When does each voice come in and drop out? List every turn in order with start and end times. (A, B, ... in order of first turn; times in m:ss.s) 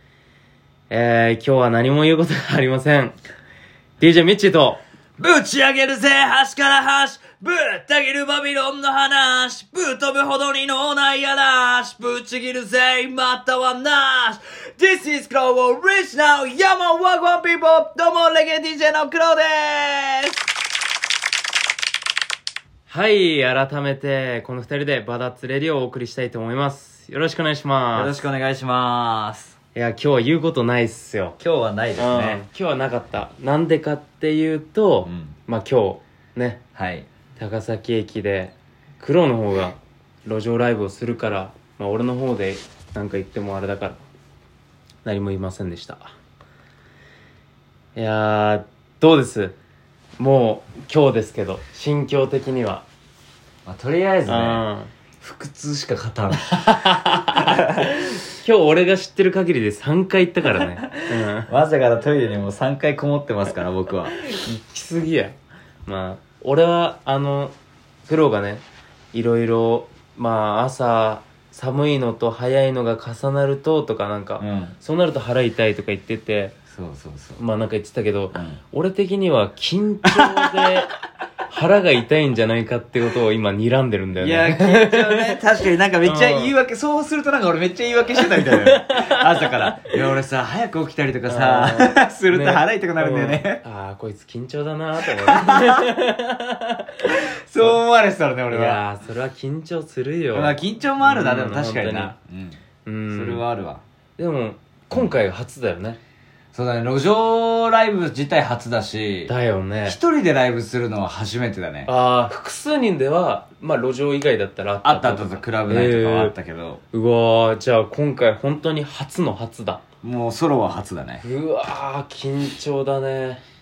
0:00.9-0:03.2 A
0:04.0-0:04.8 A
0:05.2-0:20.5 B
0:22.9-0:28.2 A
0:27.9-0:29.6 B
0:29.8-0:31.4 A
0:31.4-0:32.4 B
0:32.0-0:36.6 A
0:35.0-0:35.4 B
0:36.8-0:37.1 B
0:37.4-0:44.0 A
0:45.0-0:46.1 A
0:48.0-0:49.6 A
0:50.2-0:52.9 A
0:53.6-0:54.6 B
0:54.3-0:54.9 A
0:55.2-0:57.9 B
0:56.4-1:01.5 A
1:00.5-1:04.2 B
1:04.2-1:05.4 A
1:05.9-1:07.5 A
1:08.1-1:16.6 A
1:14.4-1:14.8 B
1:16.7-1:17.4 B
1:17.4-1:20.9 A
1:18.3-1:18.6 B
1:20.1-1:20.5 B
1:21.5-1:25.4 A
1:24.2-1:33.6 B
1:26.0-1:26.5 A
1:28.3-1:29.5 A
1:31.3-1:37.8 A
1:35.2-1:35.9 B
1:37.1-1:38.8 B
1:38.5-1:42.1 A
1:40.3-1:42.6 B
1:42.8-1:43.4 A
1:43.1-1:43.8 B
1:44.2-1:46.0 A
1:46.5-1:49.3 B
1:49.3-1:50.0 A
1:49.9-1:51.9 B
1:51.9-1:56.3 A
1:54.8-1:56.8 B
1:56.9-1:59.8 A
2:00.0-2:01.2 B
2:01.2-2:03.4 A